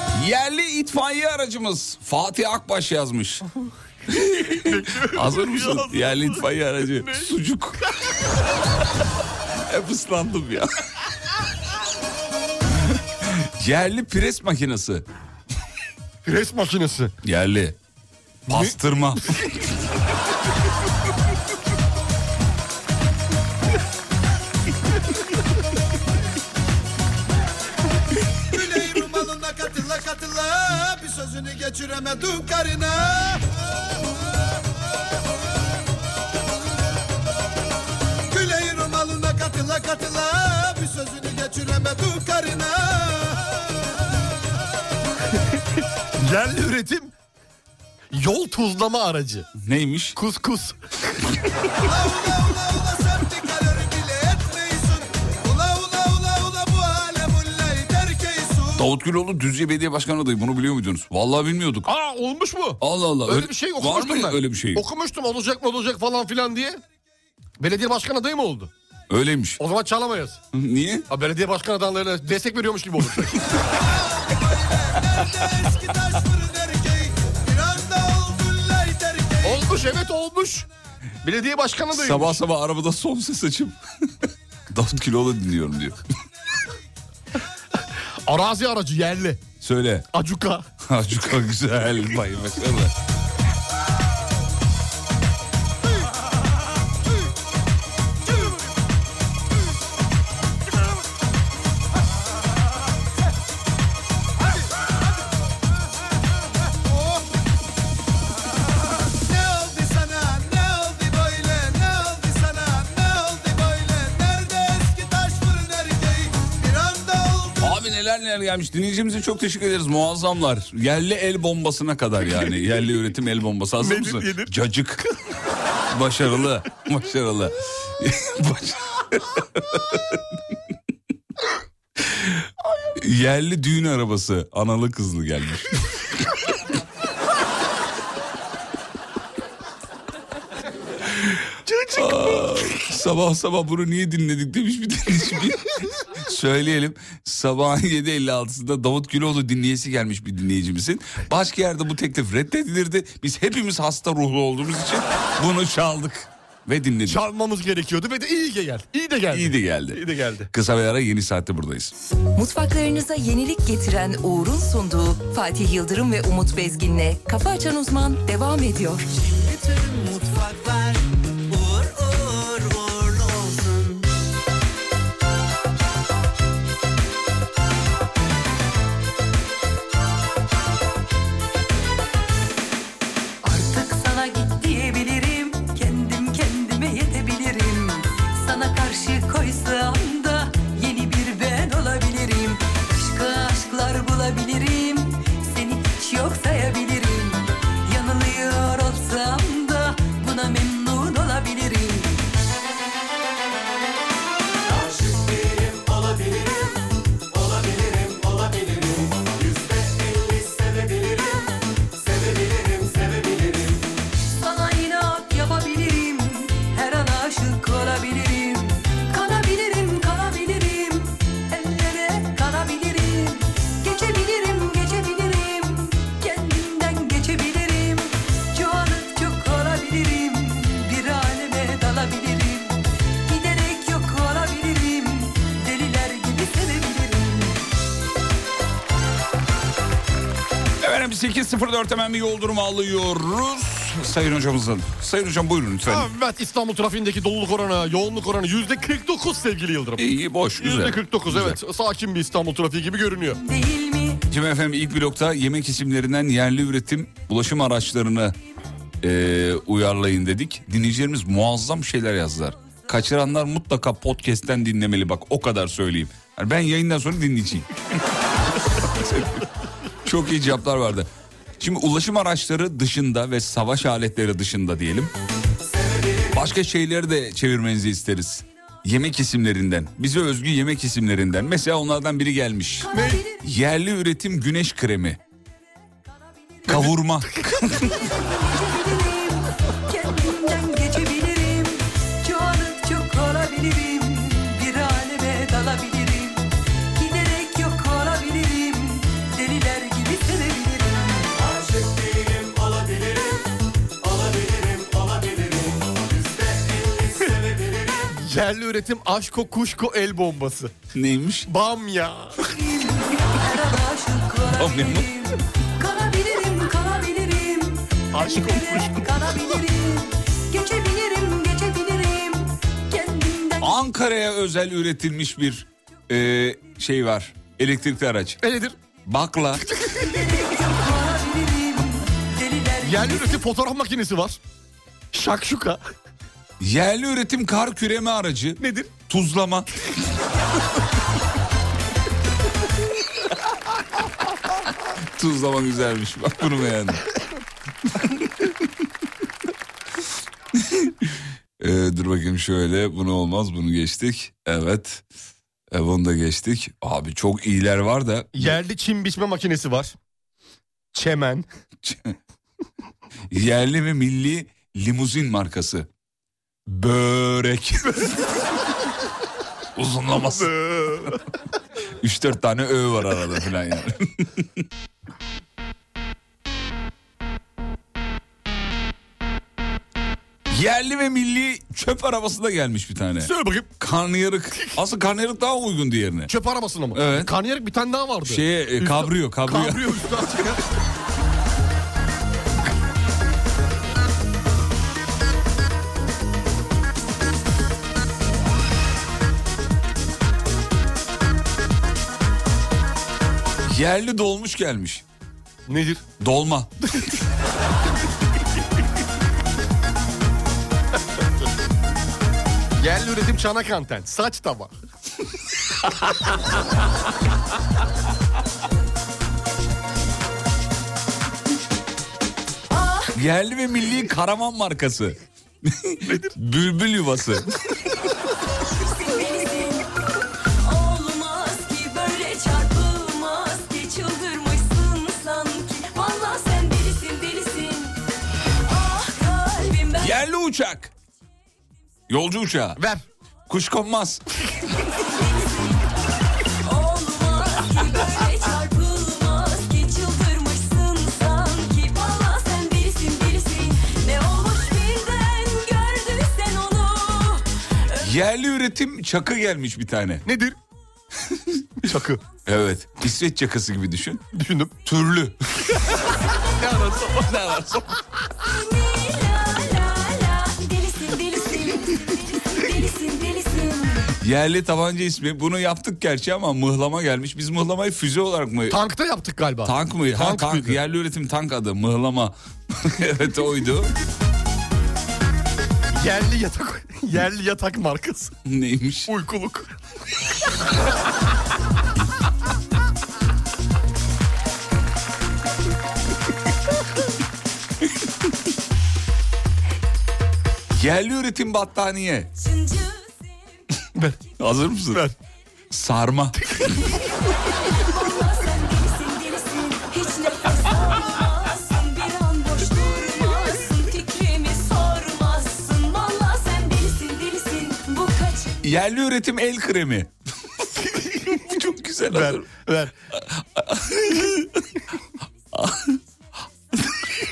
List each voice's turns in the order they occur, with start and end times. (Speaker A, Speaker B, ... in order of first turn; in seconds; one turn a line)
Speaker A: 0.1-3.4
Speaker A: 4.1-7.8
Speaker B: 4.4-7.3
Speaker A: 9.7-10.7
Speaker A: 13.2-15.0
Speaker B: 16.2-17.1
Speaker A: 17.2-17.8
Speaker A: 18.5-19.4
Speaker C: 28.5-33.5
Speaker C: 38.3-43.8
Speaker B: 46.2-47.1
Speaker B: 48.1-49.5
Speaker A: 49.6-50.2
Speaker B: 50.1-50.8
Speaker C: 51.8-58.9
Speaker A: 58.8-61.9
Speaker B: 61.9-66.8
Speaker A: 62.8-64.8
Speaker B: 67.6-68.7
Speaker A: 69.1-69.6
Speaker B: 69.6-70.4
Speaker A: 70.5-71.1
Speaker B: 71.1-73.4
Speaker C: 73.7-79.7
Speaker B: 79.4-80.7
Speaker B: 81.2-82.4
Speaker A: 81.9-83.8
Speaker A: 84.7-86.0
Speaker B: 88.2-89.4
Speaker A: 89.6-90.1
Speaker B: 90.1-90.7
Speaker A: 90.8-92.9
Speaker C: 106.8-107.2
Speaker C: 109.1-117.8
Speaker A: 117.6-125.0
Speaker B: 123.8-124.5
Speaker A: 125.9-130.2
Speaker A: 132.0-132.4
Speaker A: 132.9-136.2
Speaker B: 141.7-142.5
Speaker A: 141.9-157.2
Speaker B: 157.1-160.5
Speaker A: 159.3-161.9
Speaker D: 162.3-169.1
Speaker E: 169.1-174.1
Speaker F: 183.4-202.3
Speaker F: 214.3-237.6
Speaker A: 240.8-246.1
Speaker B: 245.8-250.0
Speaker A: 250.0-251.6
Speaker B: 250.6-253.4
Speaker F: 253.4-254.2
Speaker A: 254.3-258.4
Speaker A: 259.0-267.7
Speaker A: 268.9-269.5
Speaker A: 270.0-275.1
Speaker A: 276.3-285.2
Speaker F: 282.9-283.4
Speaker B: 282.9-283.2
Speaker A: 286.6-287.9
Speaker B: 286.7-287.7
Speaker F: 287.7-301.3
Speaker B: 308.1-310.7
Speaker A: 310.9-311.5
Speaker B: 311.5-312.4
Speaker F: 312.5-323.7
Speaker A: 314.5-315.1
Speaker B: 318.1-319.1
Speaker A: 323.6-328.4
Speaker B: 328.4-328.7
Speaker A: 329.1-329.6
Speaker F: 330.0-333.4
Speaker B: 332.8-334.4
Speaker B: 335.1-335.8
Speaker A: 336.6-339.7
Speaker B: 338.6-338.9
Speaker A: 345.1-347.0
Speaker A: 350.6-355.0
Speaker A: 355.7-358.5
Speaker B: 358.3-359.9
Speaker B: 360.9-361.4
Speaker A: 361.8-362.1
Speaker A: 363.3-365.9
Speaker A: 366.6-368.2
Speaker A: 369.8-371.1
Speaker B: 370.2-371.1
Speaker A: 372.0-374.5
Speaker A: 380.5-386.3
Speaker B: 383.2-383.7
Speaker B: 386.3-390.6
Speaker A: 386.9-387.3
Speaker A: 388.2-390.4
Speaker A: 403.6-405.0
Speaker B: 405.7-406.0
Speaker A: 406.2-406.8
Speaker B: 412.8-414.7
Speaker F: 422.7-423.1
Speaker A: 423.1-427.5
Speaker F: 428.7-430.0
Speaker F: 430.6-438.0
Speaker F: 438.6-440.1
Speaker A: 439.9-440.9
Speaker A: 442.1-442.8
Speaker B: 442.8-443.0
Speaker A: 443.5-444.2
Speaker F: 445.0-445.9
Speaker F: 446.6-458.1
Speaker A: 458.0-460.2
Speaker B: 460.2-460.6
Speaker B: 461.8-462.2
Speaker A: 462.4-464.3
Speaker B: 464.3-464.8
Speaker A: 464.8-465.4
Speaker B: 466.6-467.7
Speaker A: 467.2-467.9
Speaker F: 468.4-474.1
Speaker A: 474.1-478.8
Speaker B: 478.7-480.8
Speaker A: 479.6-483.9
Speaker B: 485.9-488.3
Speaker A: 488.4-489.1
Speaker B: 489.1-489.7
Speaker A: 500.7-502.3
Speaker F: 502.4-503.1
Speaker A: 504.4-505.0
Speaker A: 505.7-506.5
Speaker F: 507.3-518.6
Speaker A: 518.6-520.1
Speaker A: 521.3-522.5
Speaker B: 522.1-522.9
Speaker A: 523.2-524.6
Speaker A: 525.5-526.0